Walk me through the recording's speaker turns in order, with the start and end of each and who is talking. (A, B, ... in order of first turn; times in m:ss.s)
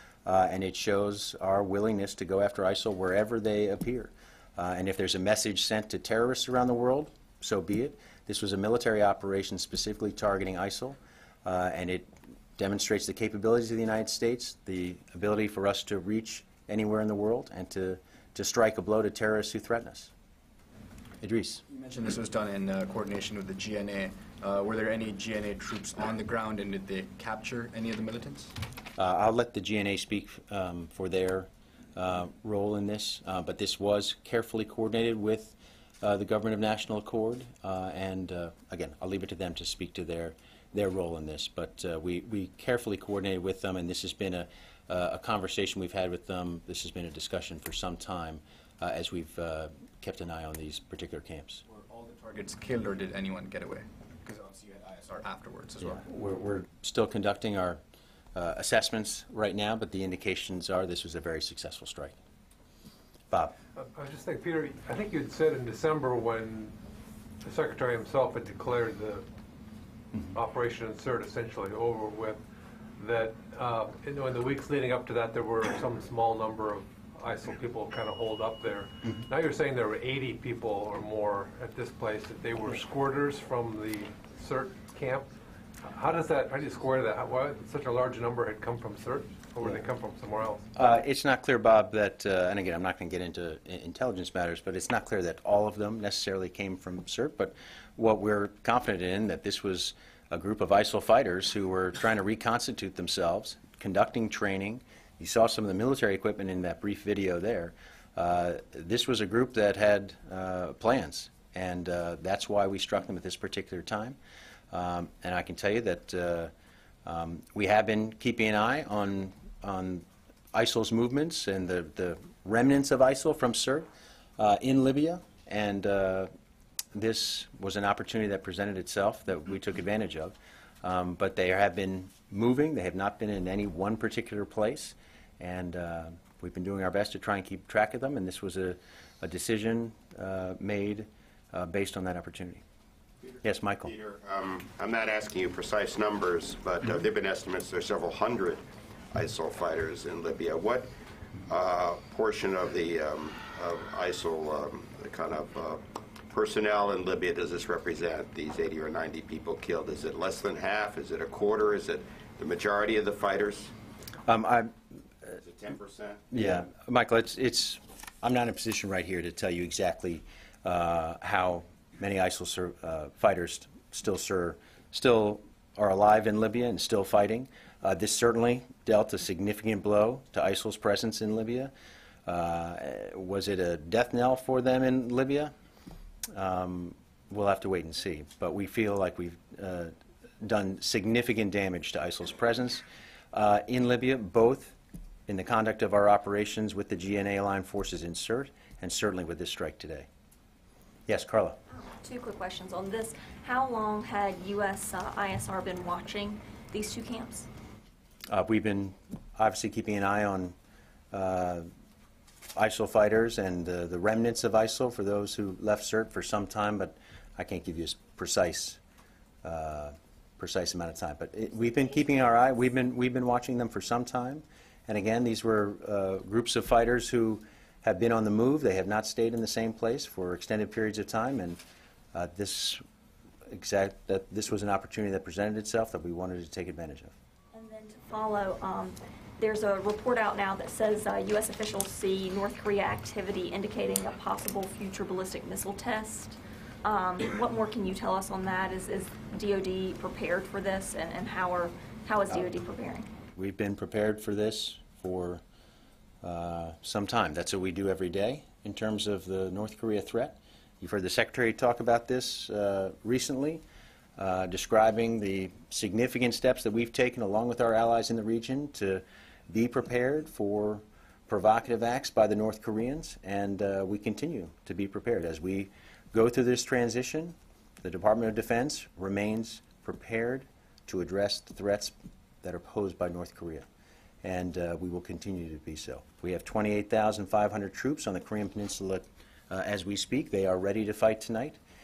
0:00.3-0:20.1 A
0:21.2-0:21.6 A
0:21.7-0:28.6 B
0:29.0-0:51.6 A
0:51.7-0:56.1 B
0:55.8-0:57.8 A
0:58.4-1:02.2 A
1:03.8-1:06.8 C
1:07.4-1:09.3 C
1:10.3-1:12.4 C
1:13.0-1:25.3 C
1:25.8-1:30.6 C
1:30.8-1:54.2 A
1:54.7-1:56.5 A
1:57.0-2:06.3 A
2:07.0-2:22.6 A
2:23.2-2:30.9 D
2:23.4-2:23.9 A
2:31.5-2:43.7 D
2:44.3-2:44.7 A
2:45.4-2:46.3 D
2:46.3-3:01.7 A
3:02.3-3:05.5 A
3:06.3-3:20.1 A
3:21.1-3:21.6 A
3:21.7-3:27.5 E
3:28.3-3:30.6 A
3:31.1-3:31.7 A
3:32.6-3:38.8 A
3:39.4-3:51.6 A
3:52.1-3:52.8 A
3:53.5-3:57.2 A
3:57.5-4:13.1 E
4:12.3-4:12.6 A
4:13.4-4:15.4 A
4:16.2-4:23.6 A
4:24.2-4:43.7 A
4:44.2-4:51.6 A